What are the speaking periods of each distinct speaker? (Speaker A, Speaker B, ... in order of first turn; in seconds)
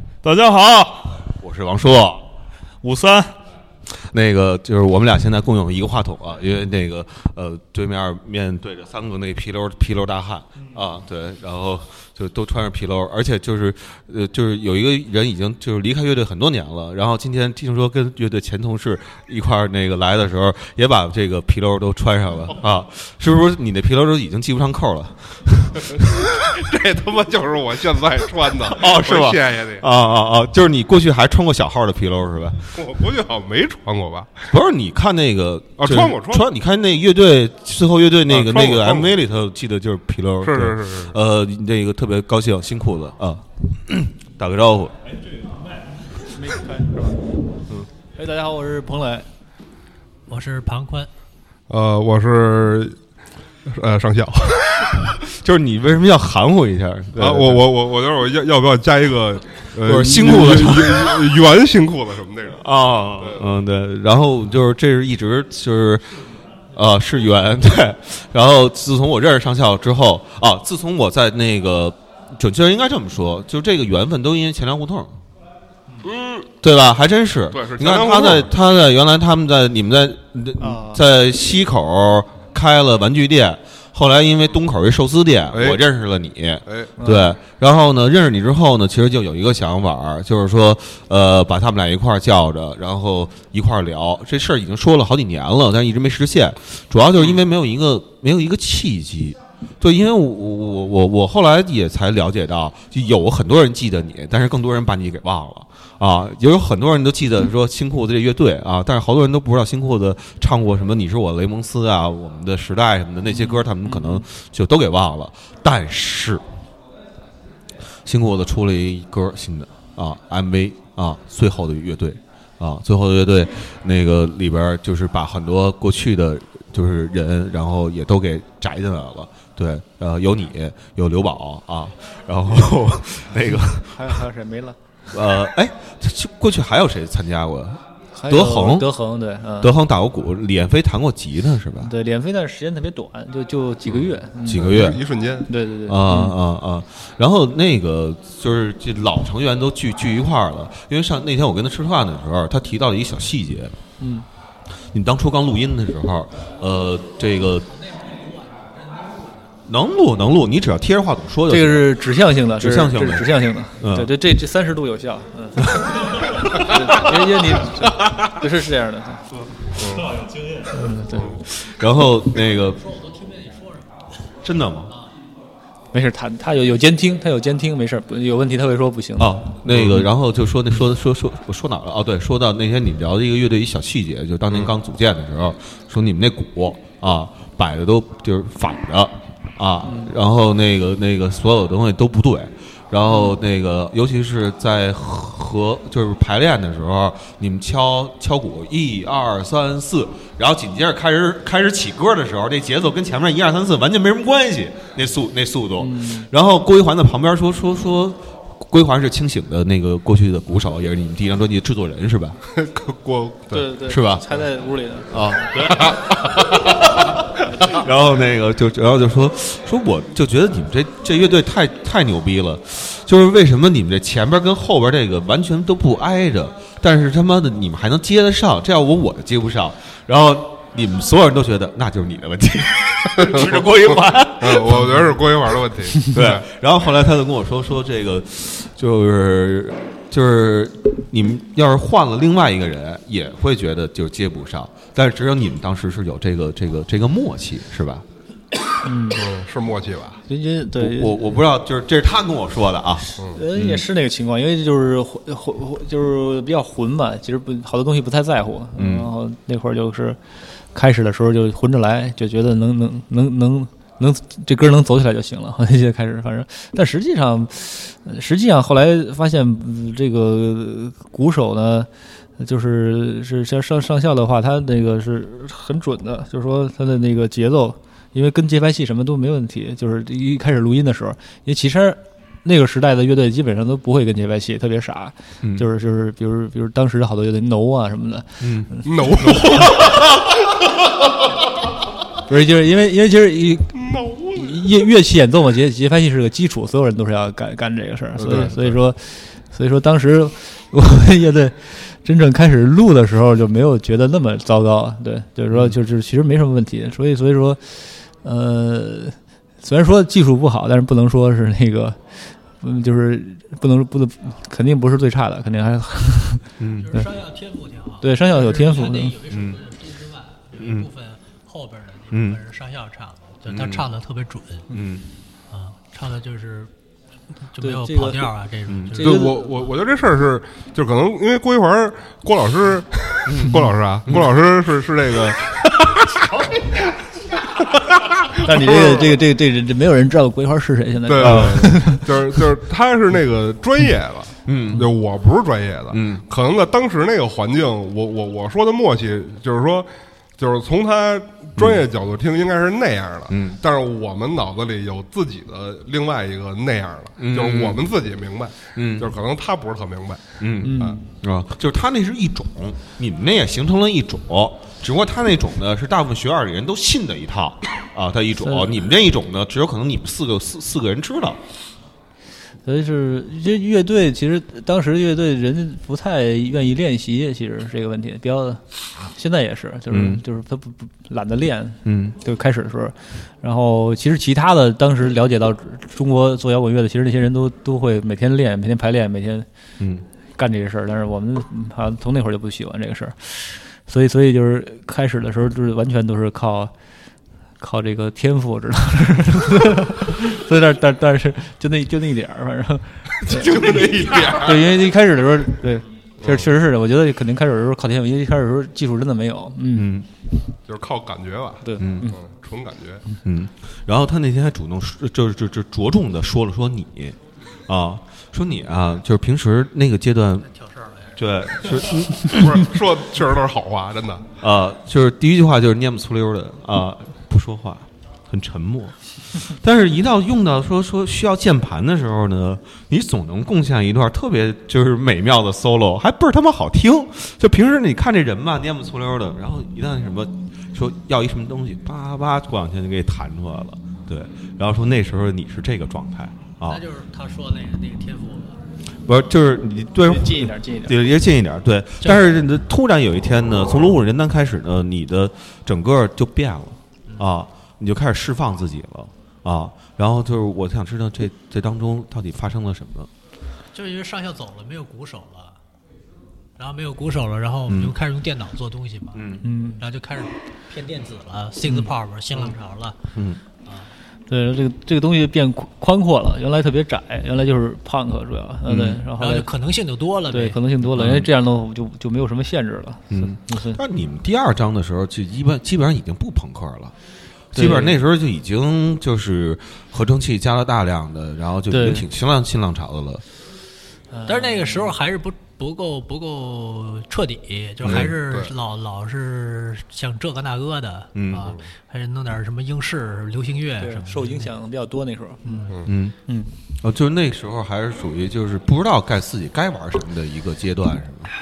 Speaker A: 0.2-1.3, 2.8-3.4, 170.1-170.7
Speaker B: 1.3-2.3, 3.9-26.1, 28.6-32.7, 34.5-44.9, 55.3-57.6, 59.8-61.4, 62.5-66.2, 66.7-75.1, 76.6-116.4, 118.0-134.2, 135.1-138.9, 139.6-141.9, 143.8-145.0, 145.8-153.7, 154.9-157.7, 159.7-164.2, 171.2-172.8, 174.4-174.9, 179.2-212.4, 213.9-214.3, 215.1-235.1, 236.0-248.0, 250.7-253.8, 258.8-259.1, 288.4-288.7, 316.6-317.0, 319.3-319.6, 320.6-320.9, 322.1-322.4, 323.5-323.9, 324.7-325.1, 328.7-329.0, 333.2-334.3, 341.2-341.5, 344.4-344.9, 345.9-346.2, 351.6-351.8, 353.3-353.6, 357.2-357.8, 358.7-359.1, 360.4-371.4, 379.9-380.2, 381.8-382.2, 409.7-410.1, 411.8-412.1, 413.2-420.5, 421.1-422.7, 424.4-446.8, 449.1-463.1, 467.7-467.9, 469.1-469.4, 473.1-473.4, 478.6-479.0, 480.9-481.3, 483.1-486.9, 487.5-493.2, 497.8-498.1, 501.1-501.5, 505.9-506.1, 506.8-511.3
Speaker C: 25.9-29.8, 32.8-34.5, 35.8-36.5, 38.3-39.1, 40.4-41.2, 51.7-53.0, 53.7-55.1, 57.2-62.6, 63.2-63.4, 76.0-76.5, 77.5-78.5, 85.5-85.8, 144.5-145.5, 169.7-170.1, 179.7-180.0, 212.5-213.7, 215.6-217.3, 233.2-233.7, 234.4-236.4, 249.1-250.2, 288.8-290.6, 293.7-294.6, 298.2-298.8, 328.9-339.2, 341.1-361.0, 403.2-404.8, 406.2-406.5, 410.7-413.0, 422.2-424.2, 497.9-498.5
Speaker D: 46.2-47.3, 48.1-49.3, 80.6-81.0, 87.0-87.3, 113.3-114.2, 133.5-134.8, 138.1-139.7, 141.8-144.9, 145.4-146.4, 154.0-154.2, 161.5-169.2, 170.7-171.3, 175.9-179.4, 189.8-190.1, 193.1-193.4, 205.8-206.3, 213.5-215.2, 248.8-249.3, 250.3-251.3, 253.0-260.2, 260.7-289.7, 292.3-317.1, 318.0-319.1, 327.6-328.3, 329.0-329.4, 338.4-342.4, 360.6-361.1, 368.4-368.7, 372.6-389.4, 390.4-396.7, 397.6-409.9, 411.6-412.2, 450.0-451.0, 469.4-469.8, 474.3-479.5, 480.3-483.8, 487.5-488.0, 491.7-492.1, 494.1-494.9, 503.8-505.7
Speaker E: 50.3-51.1, 157.7-159.3, 172.4-173.9, 316.8-324.6, 325.5-326.7, 327.5-329.6, 420.5-421.9, 446.6-448.6, 463.7-465.6, 466.6-473.0, 479.1-480.6, 494.3-504.5, 505.4-505.7